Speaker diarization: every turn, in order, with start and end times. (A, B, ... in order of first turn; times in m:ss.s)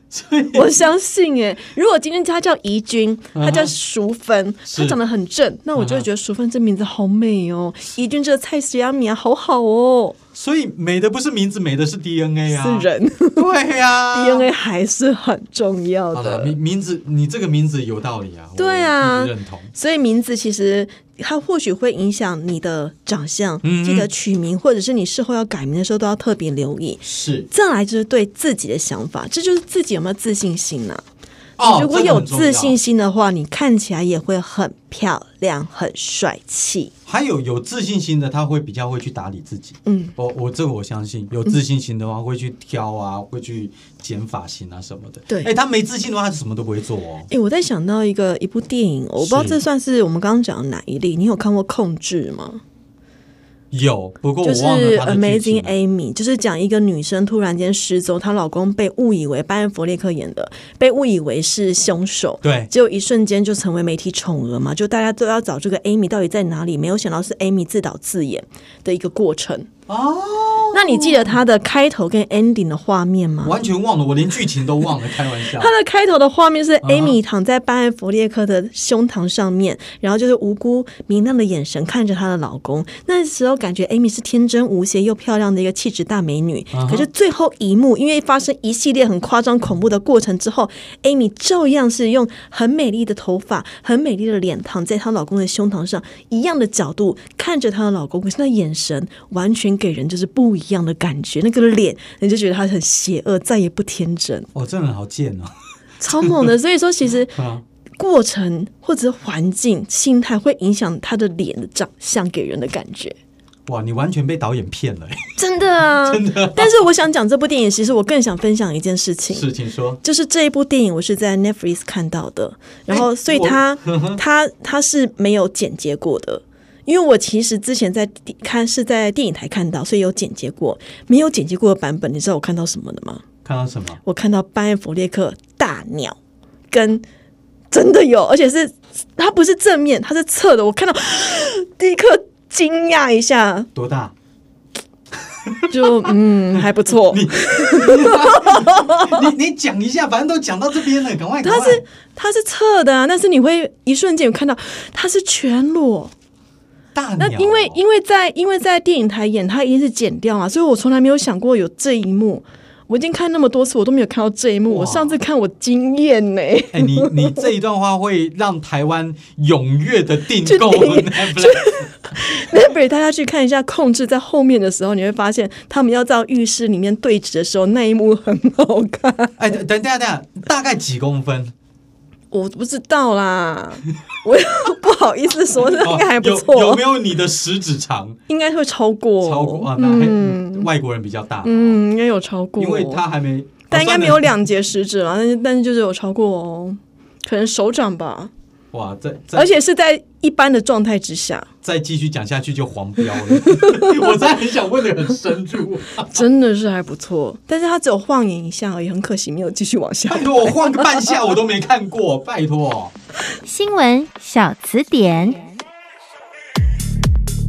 0:00.1-0:00.8 A
0:00.5-0:10.2 B
0:03.3-0:03.7 A
0:04.7-0:05.0 A
0:05.8-0:06.1 A
0:10.4-0:14.5 A
0:12.5-0:13.5 B
0:14.1-0:16.6 B
0:16.1-0:19.7 A
0:18.6-0:31.0 B
0:23.6-0:24.1 A
0:27.0-0:27.5 A
0:31.6-0:32.8 A
0:31.6-0:36.9 B
0:37.1-0:47.3 A
0:39.9-0:40.2 B
0:47.3-0:52.6 B
0:49.2-0:49.6 A
0:53.7-0:55.8 A
0:54.4-1:09.7 B
1:02.4-1:02.7 A
1:09.9-1:11.3 A
1:10.7-1:13.6 B
1:13.4-1:15.7 A
1:15.4-1:44.5 B
1:16.8-1:17.2 A
1:26.7-1:27.1 A
1:44.5-1:45.5 A
1:46.0-1:47.4 B
1:46.1-1:46.5 A
1:47.4-1:47.6 A
1:48.0-1:53.2 B
1:53.7-1:55.3 A
1:55.4-1:59.5 B
1:56.0-1:56.7 A
1:59.3-2:00.0 A
2:00.0-2:13.2 B
2:02.9-2:04.2 A
2:13.4-2:14.0 A
2:14.0-2:16.2 B
2:16.7-2:17.0 B
2:17.7-2:23.7 B
2:23.8-2:24.1 A
2:25.3-2:31.8 A
2:25.7-2:29.3 B
2:31.4-2:36.1 B
2:37.0-2:37.8 A
2:37.2-2:47.5 B
2:44.7-2:45.2 A
2:46.7-2:51.9 A
2:50.4-2:59.4 B
2:59.4-3:01.5 A
3:02.3-3:06.9 B
3:05.6-3:08.2 A
3:08.3-3:10.7 B
3:09.2-3:11.8 A
3:11.4-3:13.0 B
3:12.6-3:14.3 A
3:13.7-3:18.3 B
3:18.7-3:19.5 A
3:19.4-3:21.5 B
3:21.6-3:26.2 A
3:23.3-3:24.1 B
3:26.1-3:31.1 B
3:30.1-3:32.9 A
3:33.4-3:35.4 C